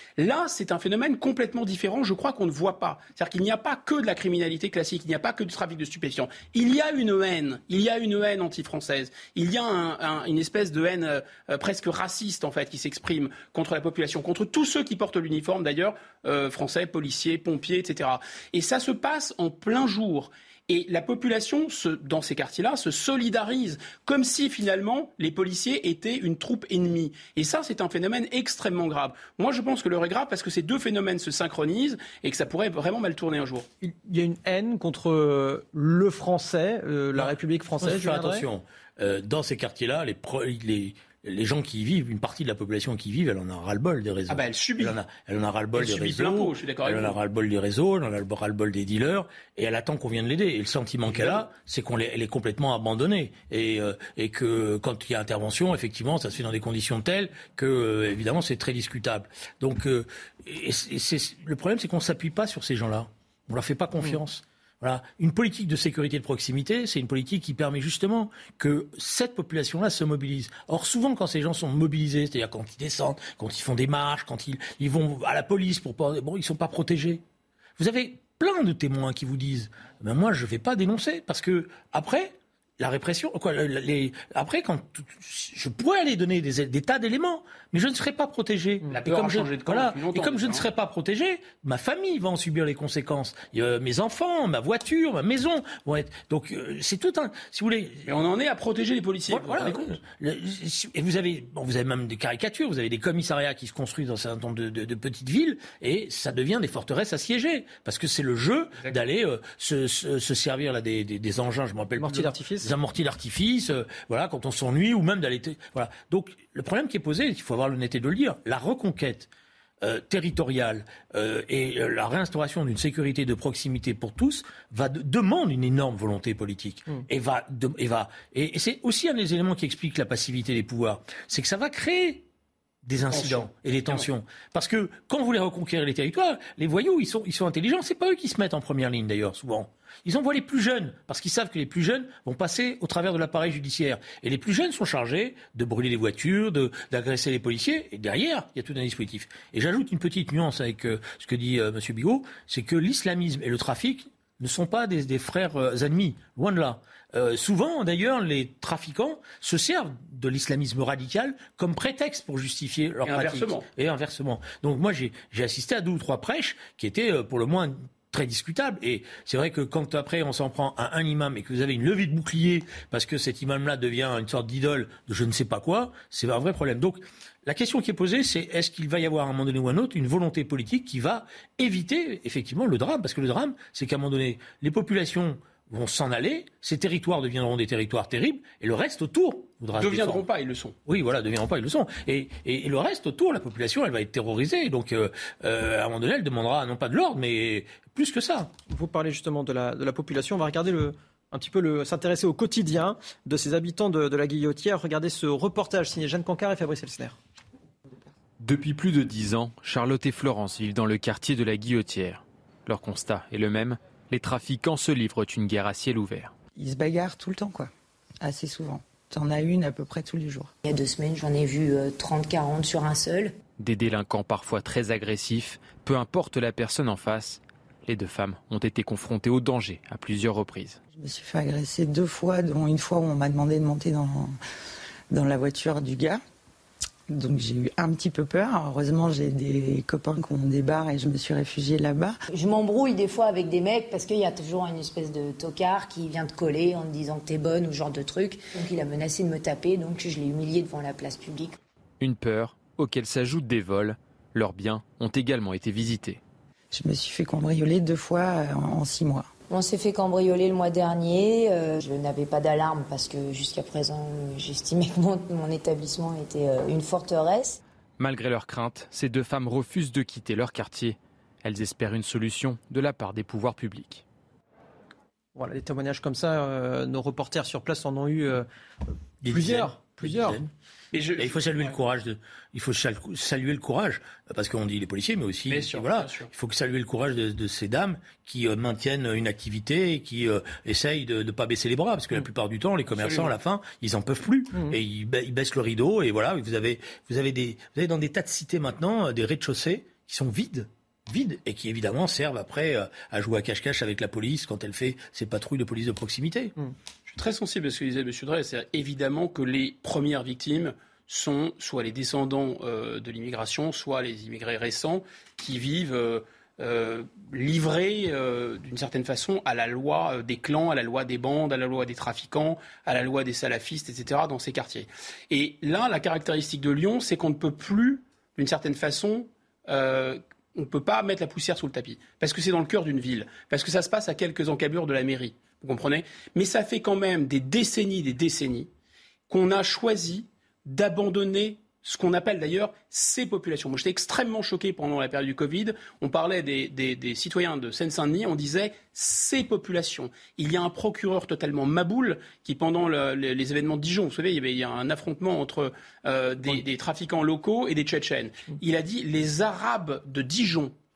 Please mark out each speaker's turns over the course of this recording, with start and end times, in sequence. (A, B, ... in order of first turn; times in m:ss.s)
0:00.2-0:33.7 A
0:33.8-0:38.5 B
0:37.2-1:17.2 C
0:44.3-0:45.0 A
0:45.8-0:47.2 A
0:51.1-0:51.4 A
1:17.8-1:38.1 C
1:28.9-1:30.7 A
1:38.1-1:39.9 A
1:39.3-1:59.3 C
1:52.0-1:52.7 B
1:59.8-2:12.2 C
2:12.8-3:10.2 C
2:13.1-2:14.1 A
2:43.1-2:43.6 A
3:09.8-3:10.8 A
3:10.9-3:18.5 C
3:18.7-3:27.2 B
3:28.4-3:36.3 D
3:36.6-3:40.5 E
3:40.6-3:43.4 F
3:43.6-3:50.8 D
3:50.9-3:54.3 E
3:55.1-3:56.2 E
3:57.1-4:02.2 E
4:02.3-4:11.6 F
4:12.0-4:16.2 D
4:16.7-4:19.3 E
4:19.5-4:27.6 F
4:28.0-4:34.0 D
4:35.4-4:38.5 B
4:39.2-4:40.5 C
4:39.2-4:40.5 B
4:40.9-4:41.8 A
4:41.2-5:06.5 C
4:45.5-4:46.3 A
4:52.9-4:53.3 A
5:07.1-5:38.7 A
5:39.3-6:00.7 A